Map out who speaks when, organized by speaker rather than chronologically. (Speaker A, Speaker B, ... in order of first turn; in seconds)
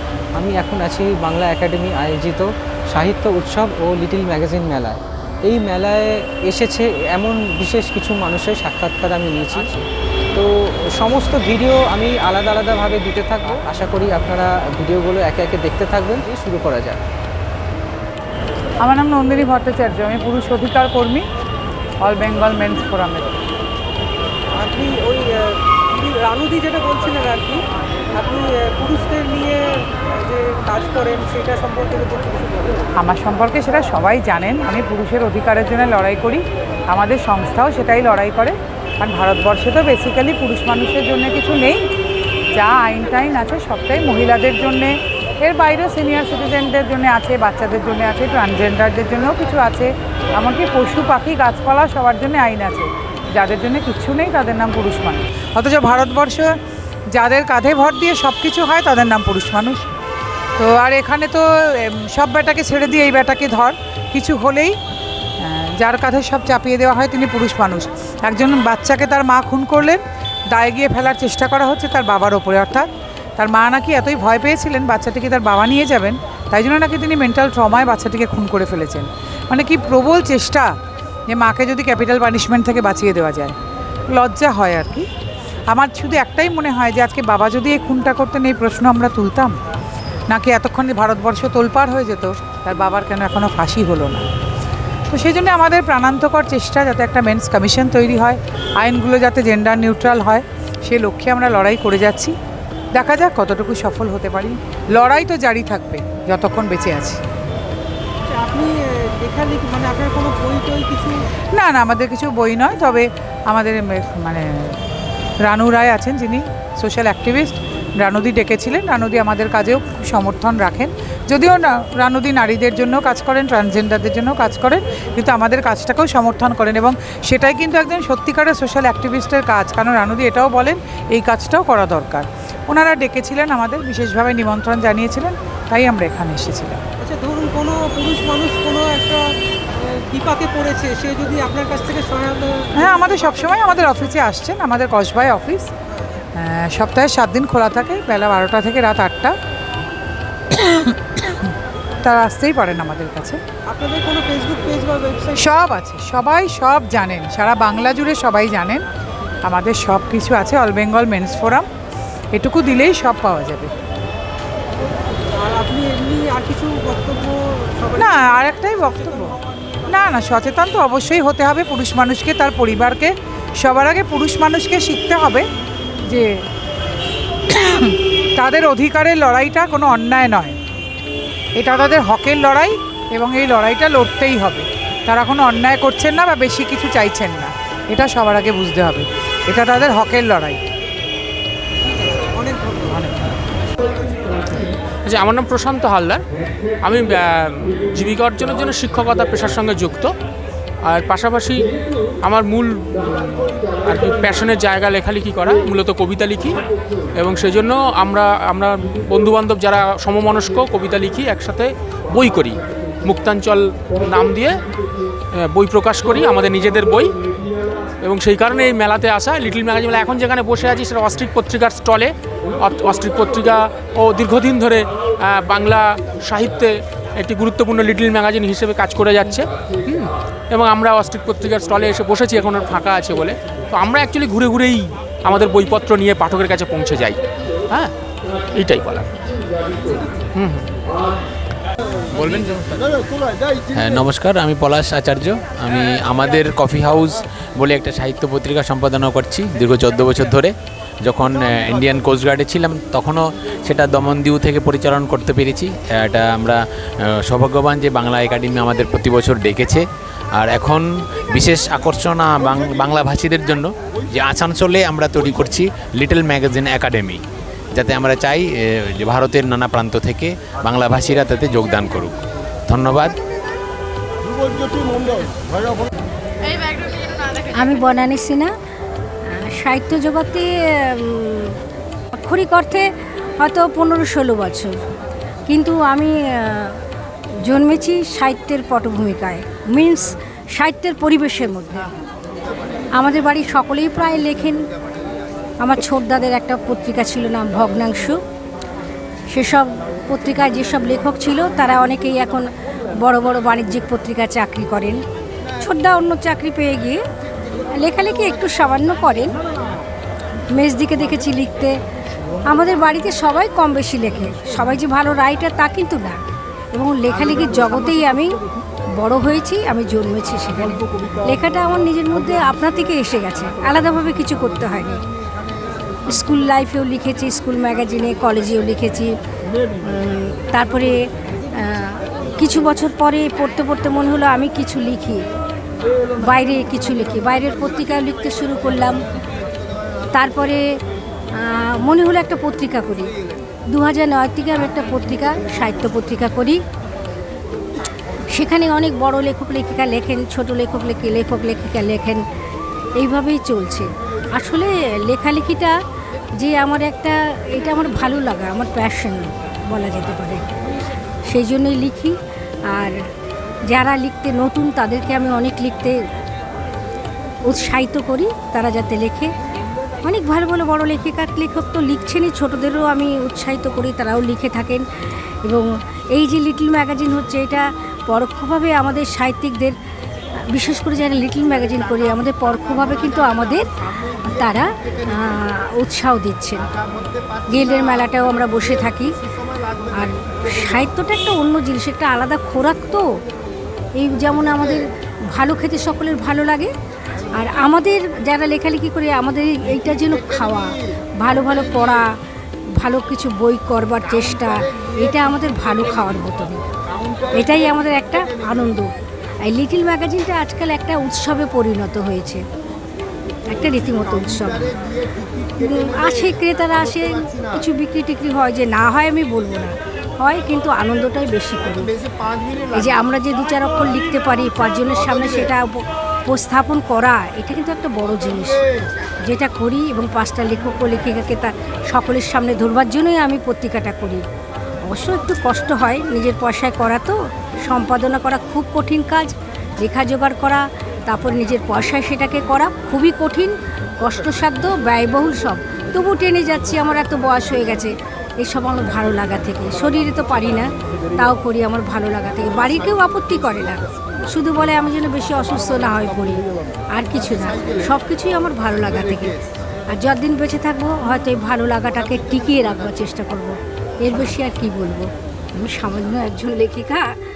Speaker A: 0.4-17.0
Speaker B: 18.8-21.2, 22.0-23.4, 33.0-41.8, 42.5-56.5, 57.1-59.9, 60.6-64.7, 65.4-70.0, 70.5-80.7, 81.3-83.5, 84.1-85.1, 85.7-89.6, 90.3-94.2, 95.1-102.3, 102.9-107.2, 111.5-114.8, 115.4-136.8, 142.7-145.7, 146.4-149.3, 150.5-153.4, 155.3-158.8, 159.4-161.7, 162.3-163.7, 168.0-175.4, 176.1-176.3, 177.5-180.6, 181.6-190.6, 192.9-193.3
Speaker C: 24.5-32.9, 108.3-111.2, 137.0-139.2, 139.8-144.1, 153.7-155.5, 165.4-169.8, 191.8-193.1, 193.7-194.5
Speaker D: 195.0-196.2, 196.8-200.1, 200.8-201.7, 202.2-206.6, 207.2-214.6, 215.3-217.1, 218.0-237.9, 238.6-239.1, 240.3-240.7, 242.1-242.8
Speaker E: 243.7-250.5, 251.0-256.6, 257.2-267.2, 267.7-272.2, 272.7-273.1
Speaker F: 277.4-278.5, 279.2-281.6, 282.1-284.7, 285.5-286.8, 287.4-291.9, 292.9-294.7, 295.6-298.2, 299.3-305.0, 305.6-307.0, 307.7-309.4, 310.5-311.8, 312.4-316.2, 316.7-318.4, 319.0-325.0, 326.1-329.1, 329.8-331.0, 331.5-335.2, 336.2-339.0, 340.1-340.6, 341.4-343.2, 343.7-346.6, 348.3-352.2, 352.9-355.7, 356.4-360.4, 361.2-362.1, 362.7-363.0, 363.7-366.0, 367.4-369.3, 370.0-374.9, 375.4-379.7, 380.5-386.7, 387.5-389.2, 389.9-393.1, 393.9-396.7, 397.3-402.1, 402.8-406.6, 407.3-408.9, 409.4-412.4, 413.5-414.8, 415.5-422.0, 422.7-428.6, 429.2-434.2, 434.8-459.4, 459.9-467.1